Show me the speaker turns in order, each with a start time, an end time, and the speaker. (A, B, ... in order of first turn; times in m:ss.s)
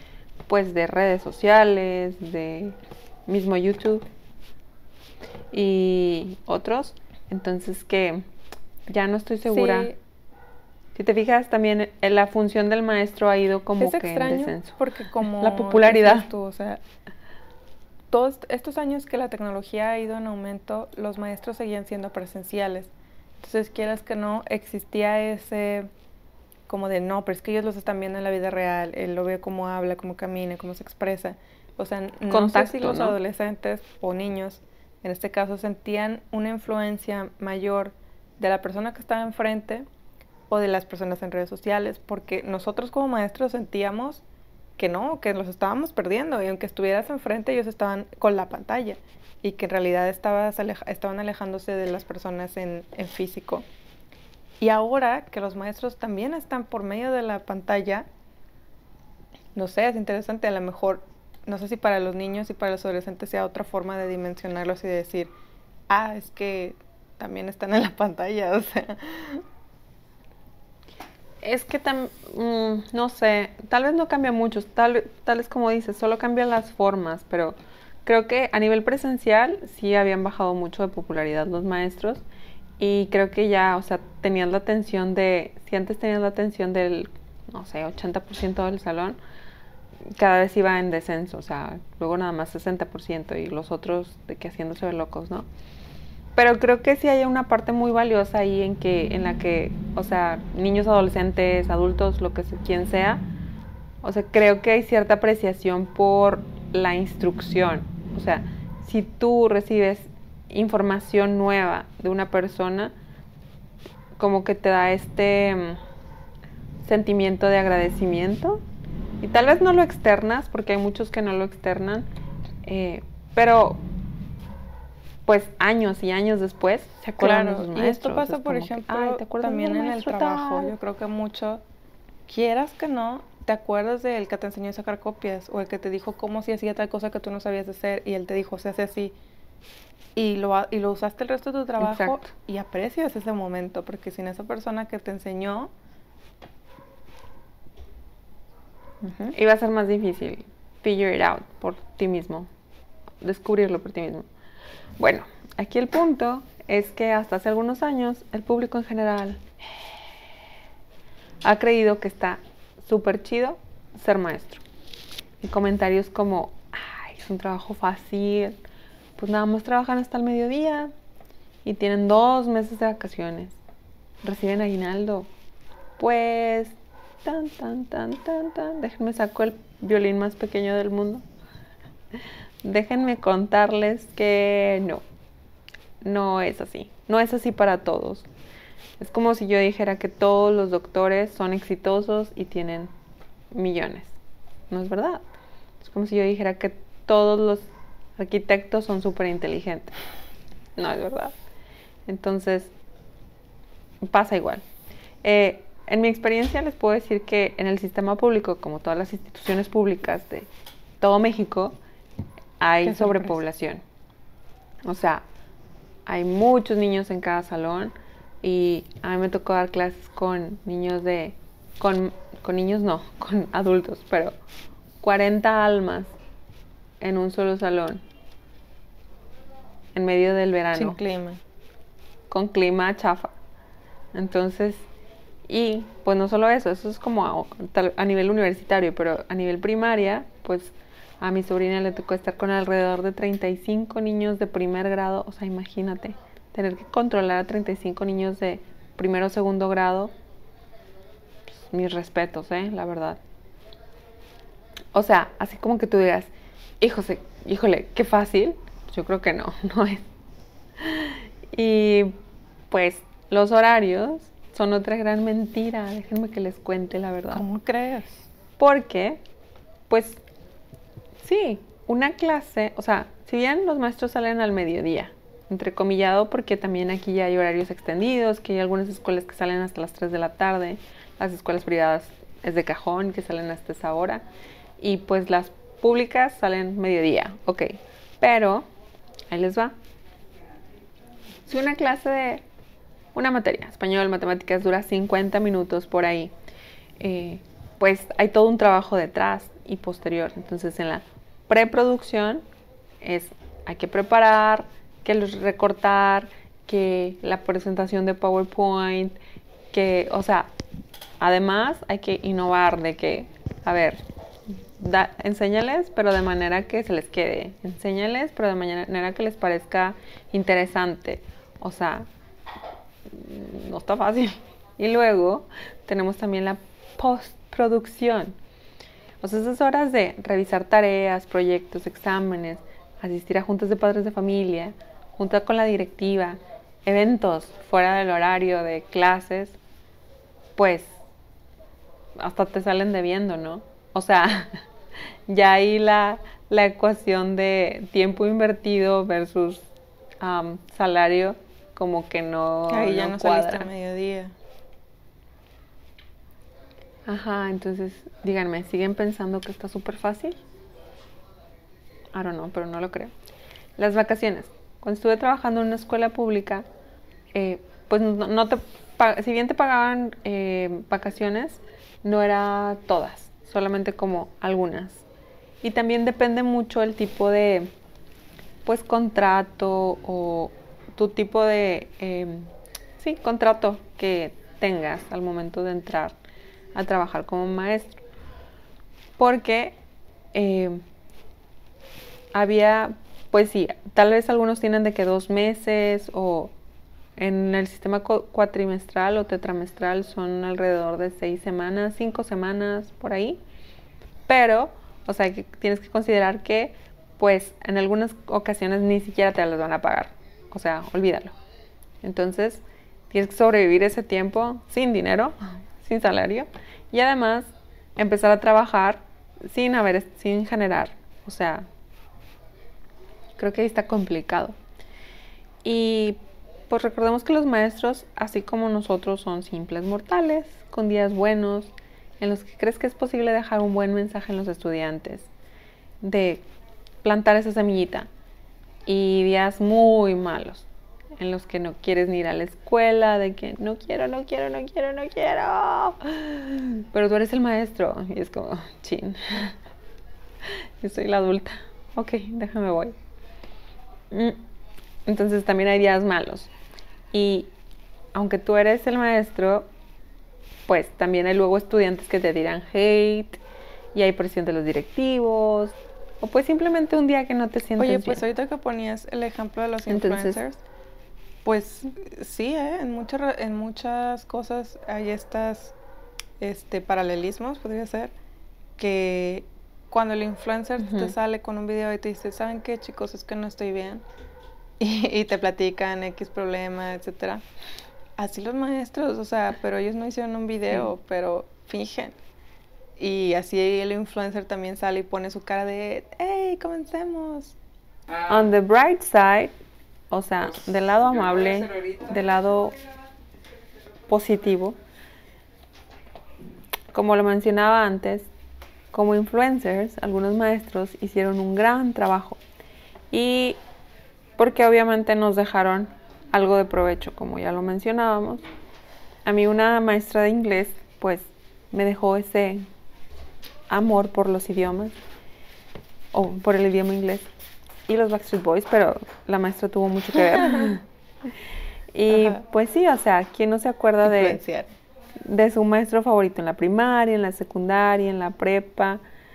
0:00.5-0:04.0 A
0:05.5-0:08.2 A
0:08.9-0:09.9 A
0:09.4-0:10.0 B
0:10.9-0:16.3 A
0:13.8-0:16.8 B
0:18.1-0:25.9 B
0:26.7-0:39.9 B
0:32.3-0:33.2 A
0:40.5-0:44.2 B
0:44.8-0:53.6 B
0:54.6-0:58.1 B
0:59.6-1:05.3 B
1:05.9-1:09.4 B
1:11.4-1:22.2 A
1:22.8-1:29.2 A
1:30.2-1:35.5 A
1:36.3-1:43.2 A
1:44.0-1:52.9 A
1:54.2-1:55.8 A
1:56.8-1:58.6 A
1:59.2-2:02.1 A
2:02.6-2:03.8 A
2:05.2-2:10.7 A
2:07.2-2:11.6 B
2:12.3-2:19.2 B
2:20.2-2:25.7 B
2:21.8-2:22.3 A
2:29.0-2:29.3 B
2:29.3-2:32.5 A
2:33.2-2:34.3 A
2:35.0-2:40.1 A
2:41.4-2:44.6 A
2:45.4-2:48.6 A
2:49.2-2:50.9 A
2:51.6-2:53.6 A
2:54.2-2:55.3 A
2:56.0-3:01.2 A
3:02.2-3:05.0 A
3:06.0-3:08.3 A
3:09.0-3:12.9 A
3:13.5-3:14.2 A
3:14.7-3:15.2 A
3:15.8-3:20.0 A
3:20.8-3:21.3 A
3:22.1-3:22.7 A
3:24.0-3:24.6 A
3:25.2-3:30.5 A
3:31.0-3:31.8 A
3:32.6-3:33.8 A
3:32.8-3:33.3 B
3:34.8-3:35.2 A
3:36.1-3:44.3 A
3:45.0-3:46.1 A
3:47.0-3:48.0 A
3:49.9-3:51.0 A
3:50.7-3:51.4 B
3:52.3-3:53.3 A
3:54.1-3:54.9 A
3:55.5-4:10.1 A
4:11.5-4:13.2 A
4:14.9-4:20.1 A
4:20.8-4:22.1 A
4:22.7-4:27.4 A
4:27.3-4:28.2 B
4:28.6-4:29.2 A
4:29.9-4:30.2 A
4:31.2-4:44.2 A
4:44.8-4:48.7 A
4:49.3-4:49.7 A
4:51.4-4:52.4 A
4:53.2-4:56.3 A
4:57.0-5:02.4 A
5:03.0-5:09.2 A
5:09.7-5:10.5 A
5:11.2-5:22.1 A
5:23.1-5:28.4 A
5:29.2-5:39.6 A
5:40.6-5:41.0 A
5:42.2-5:44.6 A
5:45.3-5:49.7 A
5:50.2-5:53.7 A
5:52.7-5:54.3 B
5:57.1-6:00.4 A
6:02.1-6:03.1 A
6:03.8-6:06.6 A
6:07.3-6:15.0 A
6:15.6-6:17.7 A
6:18.6-6:26.2 A
6:26.7-6:28.0 A
6:29.2-6:29.8 A
6:30.3-6:30.8 A
6:32.3-6:36.5 A
6:37.2-6:43.4 A
6:44.3-6:51.3 A
6:52.0-7:01.7 A
7:03.4-7:04.6 A
7:05.6-7:06.2 A
7:06.7-7:15.3 A
7:16.0-7:16.4 A
7:17.0-7:18.1 A
7:18.8-7:20.7 A
7:21.2-7:29.6 A
7:30.4-7:32.9 A
7:34.1-7:34.4 A
7:35.1-7:36.5 A
7:37.1-7:37.5 A
7:38.2-7:39.7 A
7:40.7-7:43.4 A
7:43.9-7:48.2 A
7:47.8-7:50.6 B
7:49.9-7:50.4 A
7:51.4-7:55.8 B
7:56.4-7:58.1 B
7:58.8-8:04.0 B
8:00.8-8:01.1 A
8:04.8-8:07.4 B
8:08.2-8:12.1 B
8:13.0-8:17.6 B
8:18.3-8:19.5 A
8:20.1-8:22.8 A
8:24.1-8:24.8 A
8:26.9-8:28.3 A
8:28.9-8:32.4 A
8:33.1-8:33.6 A
8:34.4-8:38.4 A
8:39.2-8:42.6 A
8:43.7-8:44.9 A
8:46.1-8:47.3 A
8:47.9-8:51.4 A
8:51.9-8:54.4 A
8:52.1-8:52.4 B
8:54.0-8:54.7 B
8:55.2-8:59.0 A